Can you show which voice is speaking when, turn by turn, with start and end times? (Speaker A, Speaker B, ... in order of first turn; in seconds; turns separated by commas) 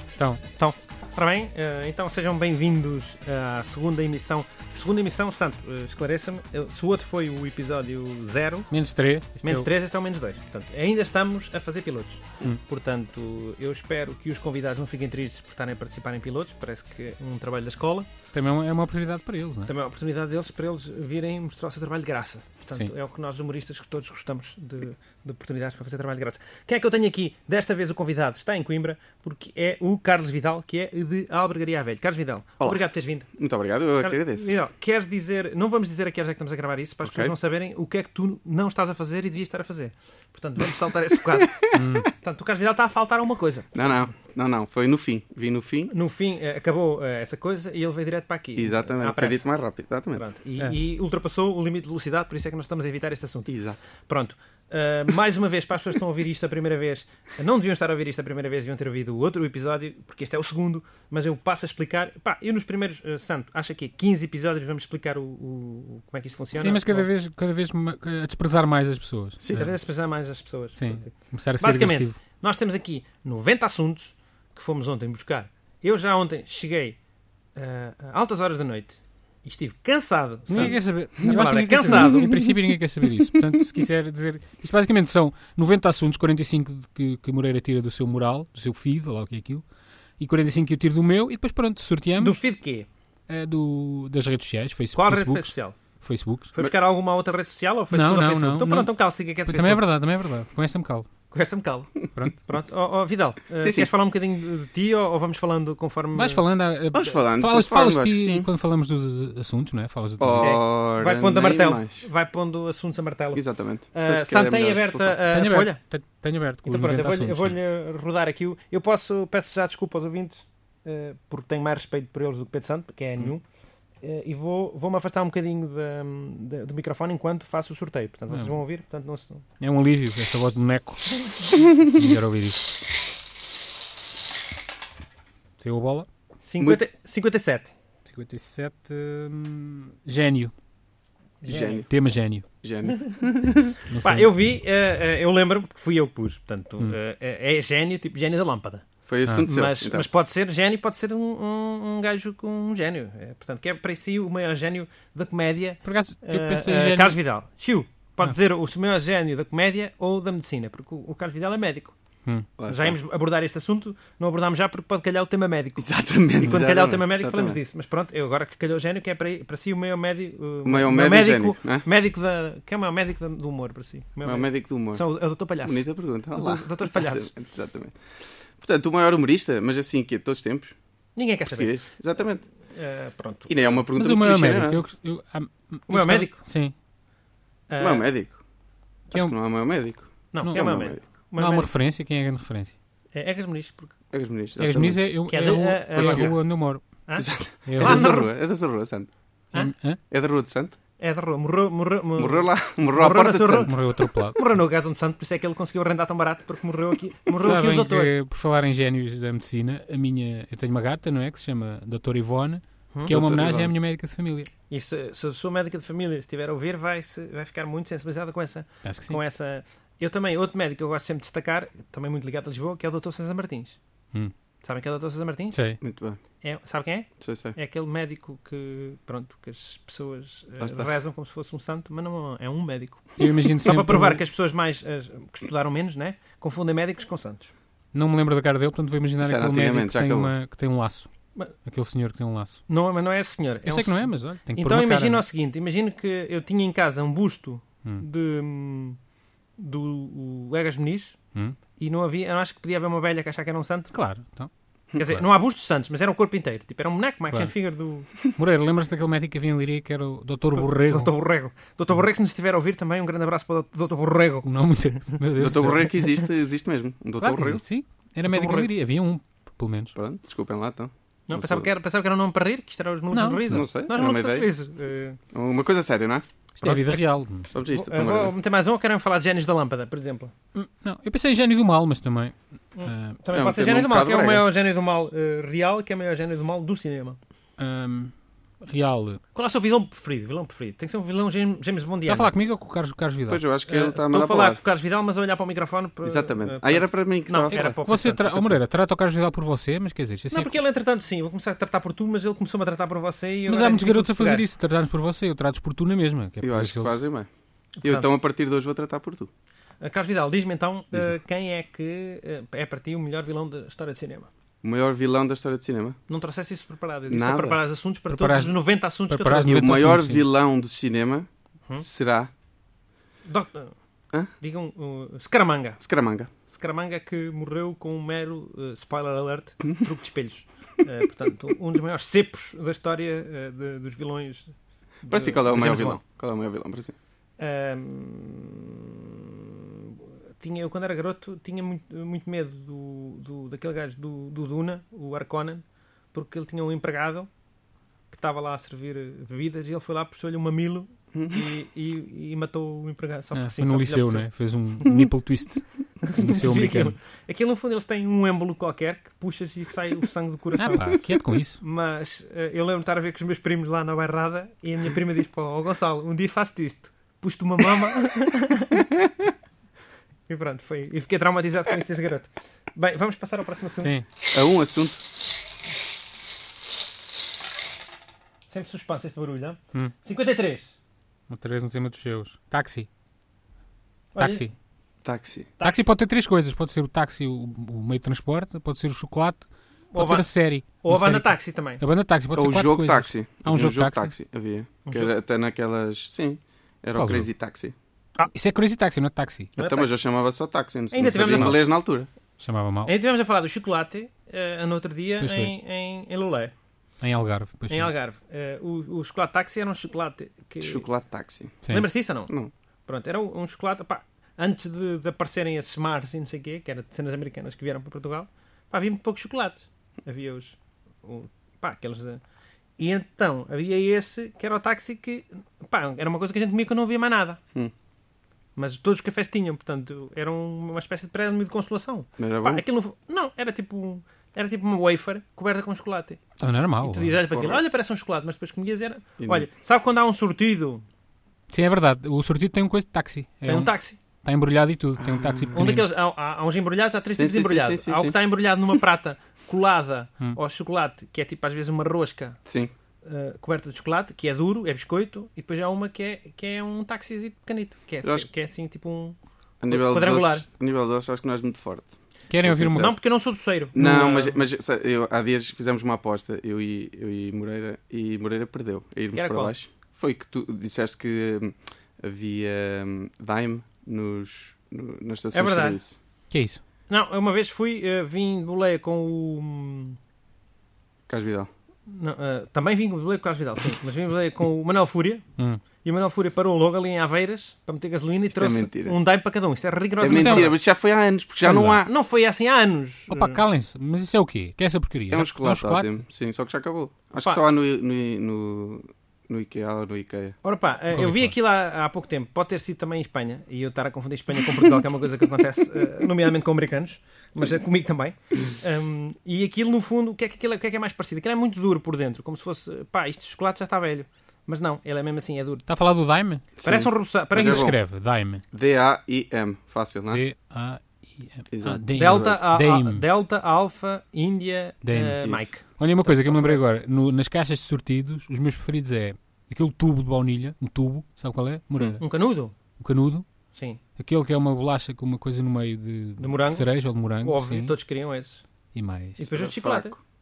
Speaker A: 0.5-8.7, Speaker B: 8.7-9.7, Speaker A: 9.4-18.1, Speaker B: 18.3-19.7, Speaker A: 19.7-33.3, Speaker C: 32.6-34.5, Speaker A: 34.0-44.0, Speaker C: 37.0-37.3, Speaker C: 41.4-41.8, Speaker B: 41.7-42.1, Speaker C: 43.7-45.9, Speaker A: 45.9-49.5, Speaker C: 48.5-50.2, Speaker A: 50.1-67.1, Speaker C: 53.5-53.8, Speaker B: 66.5-69.7, Speaker C: 69.4-69.7, Speaker A: 69.5-71.1, Speaker B: 70.8-72.2, Speaker A: 71.6-77.0, Speaker A: 77.5-82.3, Speaker B: 80.5-89.6, Speaker C: 80.6-82.7, Speaker B: 90.2-92.4, Speaker A: 92.2-92.9, Speaker B: 93.3-96.5, Speaker A: 95.0-95.8, Speaker A: 96.5-99.8, Speaker B: 97.9-98.9, Speaker B: 99.5-101.1, Speaker A: 101.3-106.4, Speaker C: 103.6-103.9, Speaker B: 106.1-110.5, Speaker C: 106.9-108.5, Speaker C: 110.2-112.0, Speaker A: 110.4-115.8, Speaker C: 113.3-115.2, Speaker B: 115.3-117.5, Speaker A: 116.7-123.4, Speaker A: 124.0-129.4, Speaker B: 129.6-132.7, Speaker B: 135.6-136.1, Speaker A: 136.4-137.7, Speaker B: 138.1-140.5, Speaker A: 141.4-141.8, Speaker C: 141.4-141.9, Speaker B: 141.9-142.4, Speaker C: 142.6-143.8, Speaker A: 142.9-143.2, Speaker B: 143.9-144.3, Speaker A: 144.0-148.8, Speaker C: 149.1-150.1, Speaker A: 149.4-161.9, Speaker B: 155.8-157.2, Speaker C: 162.6-163.0, Speaker A: 162.6-177.3, Speaker C: 165.8-167.6, Speaker C: 170.6-171.9, Speaker C: 174.2-175.0, Speaker C: 175.6-180.8, Speaker A: 181.2-181.9, Speaker C: 181.5-182.4, Speaker A: 182.7-183.8, Speaker C: 183.5-184.8, Speaker B: 183.9-186.7, Speaker A: 185.9-186.4, Speaker A: 187.7-188.0, Speaker C: 187.8-188.4, Speaker C: 189.1-191.0, Speaker A: 190.3-191.7, Speaker B: 190.4-190.8, Speaker B: 191.3-192.7, Speaker A: 193.1-193.9, Speaker C: 194.1-195.0, Speaker B: 194.6-196.8, Speaker A: 195.3-196.4, Speaker C: 195.9-196.4, Speaker A: 197.1-198.3, Speaker C: 197.2-199.1, Speaker B: 197.6-198.1, Speaker B: 199.6-200.0, Speaker C: 200.1-200.8, Speaker A: 201.0-208.1, Speaker C: 202.2-203.7, Speaker B: 203.6-204.5, Speaker B: 207.4-214.5, Speaker C: 213.1-213.7, Speaker A: 214.7-223.8, Speaker B: 218.8-219.2, Speaker A: 224.6-225.6, Speaker B: 225.5-225.8, Speaker C: 225.8-226.2, Speaker A: 226.4-237.5, Speaker C: 227.2-227.6, Speaker C: 230.6-230.9, Speaker B: 233.2-234.2, Speaker B: 237.9-241.1, Speaker C: 239.2-240.3, Speaker B: 241.6-242.6, Speaker A: 242.7-249.0, Speaker B: 243.7-245.2, Speaker A: 249.6-251.2, Speaker A: 251.8-253.9, Speaker B: 253.9-254.5, Speaker A: 254.9-258.1, Speaker B: 258.2-261.1, Speaker A: 260.5-264.5, Speaker B: 264.4-266.0, Speaker C: 265.4-267.6, Speaker B: 267.2-269.9, Speaker A: 268.2-268.7, Speaker C: 269.9-271.7, Speaker A: 271.3-275.2, Speaker B: 273.1-273.6, Speaker C: 273.5-274.5, Speaker C: 275.3-276.2, Speaker B: 276.6-277.5, Speaker A: 276.6-277.0, Speaker C: 277.5-278.3, Speaker A: 277.7-280.3, Speaker B: 280.5-283.2, Speaker A: 282.8-287.2, Speaker C: 283.3-284.5, Speaker B: 287.6-289.2, Speaker A: 289.3-292.3, Speaker B: 292.1-293.4, Speaker C: 293.3-294.6, Speaker A: 293.7-298.6, Speaker C: 296.0-297.6, Speaker B: 297.5-300.5, Speaker A: 300.3-304.4, Speaker B: 303.5-306.9, Speaker C: 306.4-307.3, Speaker A: 307.8-308.1, Speaker C: 307.8-309.3, Speaker A: 309.8-314.3, Speaker C: 314.6-316.0, Speaker A: 316.1-319.7, Speaker C: 317.1-317.6, Speaker B: 318.1-318.6, Speaker B: 319.1-320.2, Speaker C: 319.5-321.3, Speaker C: 321.8-322.3, Speaker A: 323.3-323.7, Speaker A: 324.4-325.8, Speaker C: 325.8-326.3, Speaker A: 326.5-336.0, Speaker C: 335.1-336.9, Speaker A: 337.4-347.3, Speaker A: 348.1-355.1, Speaker C: 351.1-351.4, Speaker B: 353.3-356.9, Speaker A: 356.0-368.8, Speaker B: 360.6-361.6, Speaker A: 370.3-373.9, Speaker C: 374.3-375.0, Speaker A: 378.5-380.7, Speaker B: 381.3-382.9, Speaker A: 384.1-384.5, Speaker B: 384.2-384.5, Speaker C: 385.0-385.5, Speaker A: 385.6-385.9, Speaker B: 385.6-394.1, Speaker A: 389.9-391.8, Speaker C: 392.3-397.8, Speaker A: 394.8-395.1, Speaker B: 397.0-397.3, Speaker B: 398.3-399.5, Speaker A: 399.6-399.9, Speaker C: 399.6-402.1, Speaker A: 400.9-401.6, Speaker B: 401.0-401.6, Speaker B: 402.4-402.9, Speaker A: 402.9-406.5, Speaker B: 405.2-405.5, Speaker B: 407.0-407.9, Speaker A: 407.7-410.9, Speaker C: 410.6-411.6, Speaker A: 411.7-412.3, Speaker A: 412.9-422.2, Speaker A: 422.8-427.4, Speaker A: 428.6-436.2, Speaker C: 432.2-432.6, Speaker B: 436.4-437.2, Speaker A: 436.8-440.8, Speaker C: 437.3-437.6, Speaker C: 439.2-439.5, Speaker B: 441.5-445.9, Speaker A: 443.4-444.0, Speaker C: 445.0-445.7, Speaker A: 445.5-452.4, Speaker C: 447.1-448.1, Speaker C: 452.4-452.7, Speaker A: 453.0-460.4, Speaker C: 458.0-458.3, Speaker C: 459.6-462.9, Speaker B: 462.3-462.9, Speaker A: 462.6-464.4, Speaker C: 463.7-476.0, Speaker A: 469.1-469.5, Speaker A: 475.3-475.8, Speaker B: 476.3-476.6, Speaker A: 476.9-480.0, Speaker C: 481.1-481.5, Speaker A: 481.9-485.2, Speaker A: 485.8-490.6, Speaker C: 488.3-489.0, Speaker C: 490.0-491.9, Speaker B: 490.1-490.6, Speaker B: 491.4-491.8, Speaker A: 491.8-493.4, Speaker B: 493.1-496.0, Speaker C: 495.1-500.4, Speaker A: 500.4-515.6, Speaker B: 500.9-501.3, Speaker B: 515.7-516.6, Speaker C: 516.6-517.8, Speaker A: 516.6-517.7, Speaker B: 517.3-518.4, Speaker C: 518.5-520.2, Speaker B: 520.1-523.0, Speaker C: 521.5-522.4, Speaker A: 521.9-526.6, Speaker B: 524.8-532.1, Speaker A: 532.0-532.5, Speaker B: 532.8-533.2, Speaker A: 533.5-533.8, Speaker B: 534.0-537.7, Speaker A: 536.2-538.5, Speaker B: 538.7-539.2, Speaker A: 539.2-539.9, Speaker C: 539.3-540.0